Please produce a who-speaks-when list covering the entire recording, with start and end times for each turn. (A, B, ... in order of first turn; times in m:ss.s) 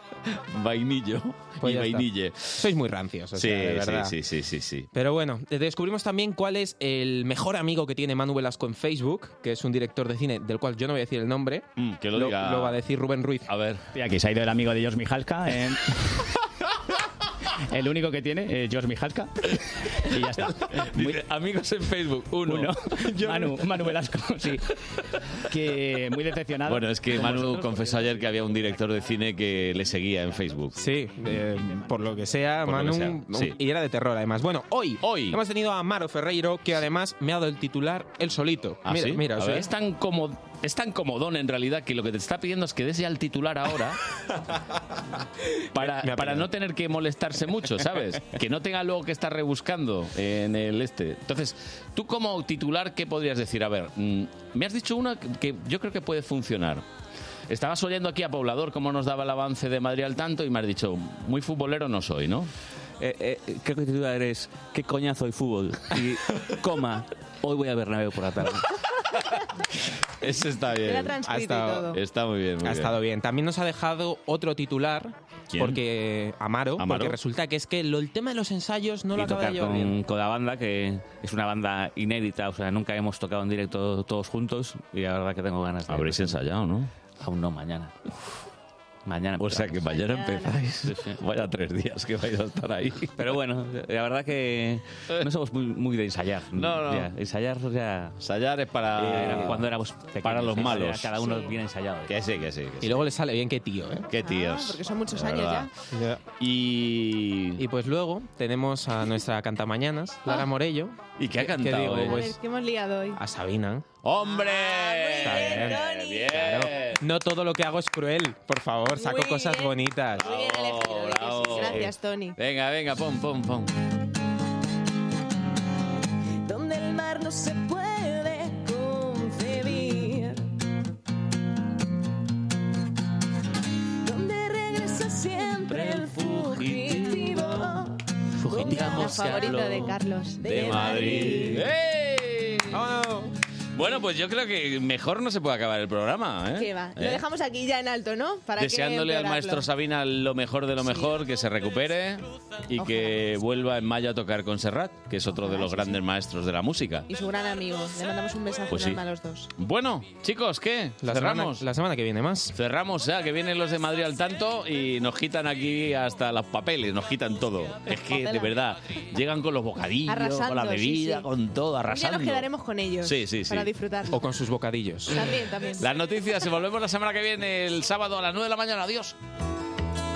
0:00.3-0:02.7 A
0:01.6-0:04.1 B
0:03.3-0:04.9 A
0:04.9-0:13.5 B
0:11.8-0:12.8 A
0:13.5-0:13.8 A
0:13.9-0:16.2 C
0:17.7-0:21.2 C
0:20.6-0:22.7 A
0:22.4-0:24.8 C
0:25.4-0:28.1 C
0:26.6-0:30.8 A
0:30.8-0:39.7 B
0:32.6-0:33.6 A
0:35.0-0:35.4 A
0:38.8-0:44.0 A
0:45.7-0:56.8 A
0:45.8-0:46.5 B
0:57.5-1:02.5 A
1:03.0-1:08.7 D
1:10.2-1:11.2 A
1:10.8-1:12.0 E
1:11.2-1:11.8 B
1:11.9-1:13.0 A
1:12.6-1:19.9 B
1:15.5-1:15.8 A
1:16.8-1:17.2 A
1:19.1-1:26.4 D
1:25.9-1:26.9 A
1:27.2-1:28.0 D
1:29.0-1:29.9 D
1:29.4-1:33.2 A
1:29.9-1:30.6 E
1:30.8-1:31.2 D
1:33.2-1:38.2 D
1:36.5-1:37.1 A
1:38.2-1:41.1 A
1:39.0-1:42.1 D
1:41.2-1:41.5 E
1:42.1-1:43.1 A
1:42.8-1:44.1 B
1:44.1-1:45.7 A
1:44.2-1:45.7 E
1:45.9-1:46.2 B
1:46.4-1:47.6 A
1:47.6-1:52.4 B
1:51.2-1:52.3 A
1:51.9-1:53.2 E
1:53.2-1:53.8 B
1:54.0-1:57.0 A
1:54.2-1:56.6 E
1:55.2-2:00.2 B
1:58.9-2:02.4 E
2:00.1-2:03.8 A
2:06.4-2:10.4 E
2:14.0-2:21.6 E
2:18.4-2:22.8 A
2:18.5-2:19.8 D
2:22.7-2:23.3 B
2:23.7-2:27.2 A
2:26.6-2:29.7 E
2:28.6-2:37.1 A
2:30.8-2:31.1 E
2:32.8-2:33.2 E
2:35.4-2:35.9 E
2:37.1-2:39.5 E
2:38.7-2:39.0 A
2:39.5-2:41.6 A
2:41.0-2:42.5 B
2:42.5-2:52.4 A
2:47.9-2:48.6 E
2:50.1-2:51.3 E
2:51.8-2:54.2 E
2:53.0-2:53.7 A
2:54.1-2:55.3 B
2:55.1-2:55.9 E
2:55.8-2:59.2 A